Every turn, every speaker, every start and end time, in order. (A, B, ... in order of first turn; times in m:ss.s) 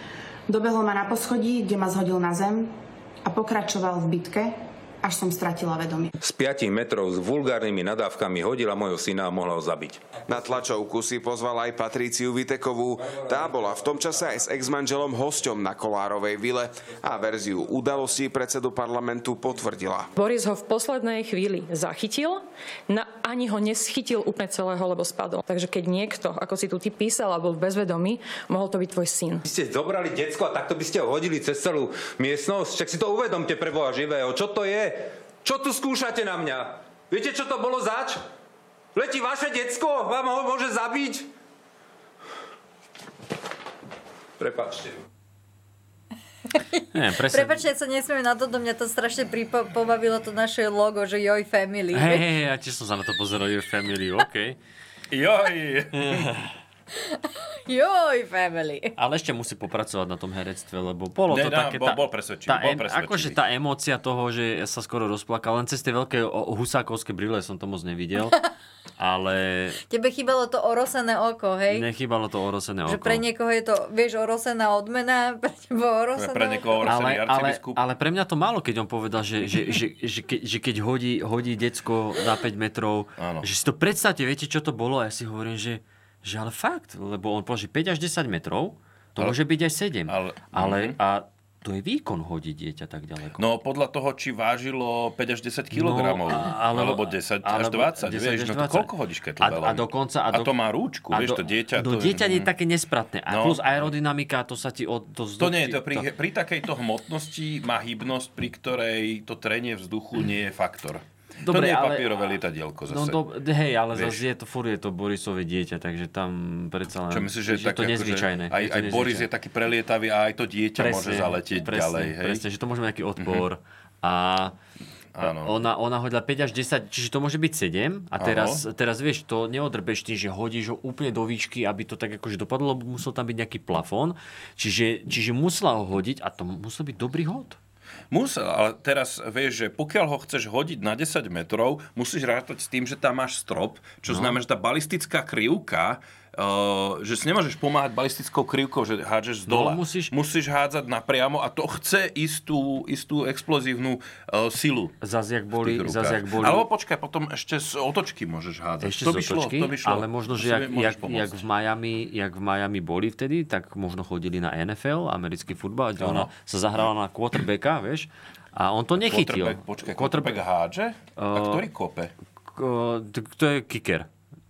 0:00.5-0:06.1 A
0:06.2-0:10.1 B
0:10.2-0:20.1 C
0:20.2-0:29.4 D
0:29.4-0:38.2 B
0:38.9-0:41.3 B
0:44.4-0:45.0 B
0:46.6-0:52.2 E
0:46.9-0:47.7 F
0:51.9-0:54.6 F
0:55.1-0:56.3 G
0:56.0-0:56.4 F
0:57.0-0:58.9 E
0:59.0-1:08.4 F
1:01.3-1:03.4 G
1:09.0-1:09.8 F
1:09.9-1:11.8 E
1:11.7-1:13.2 F
1:12.9-1:16.8 E
1:16.1-1:17.8 G
1:16.8-1:33.4 F
1:23.2-1:23.5 G
1:30.1-1:31.0 G
1:33.4-1:42.5 G
1:35.7-1:40.5 F
1:41.1-1:46.1 F
1:43.3-1:43.9 G
1:45.4-1:53.2 G
1:51.4-1:52.2 F
1:52.9-1:59.3 F
1:53.9-1:54.2 G
1:57.1-2:02.4 G
2:00.8-2:04.5 F
2:03.2-2:03.4 G
2:05.1-2:05.5 G
2:05.2-2:17.6 F
2:08.2-2:08.6 G
2:18.1-2:34.9 G
2:24.1-2:24.4 F
2:29.5-2:30.1 F
2:35.0-2:36.6 F
2:35.6-2:41.4 G
2:38.8-2:50.4 F
2:46.0-2:46.3 G
2:49.0-2:52.1 G
2:51.2-2:51.7 F
2:52.5-2:54.1 F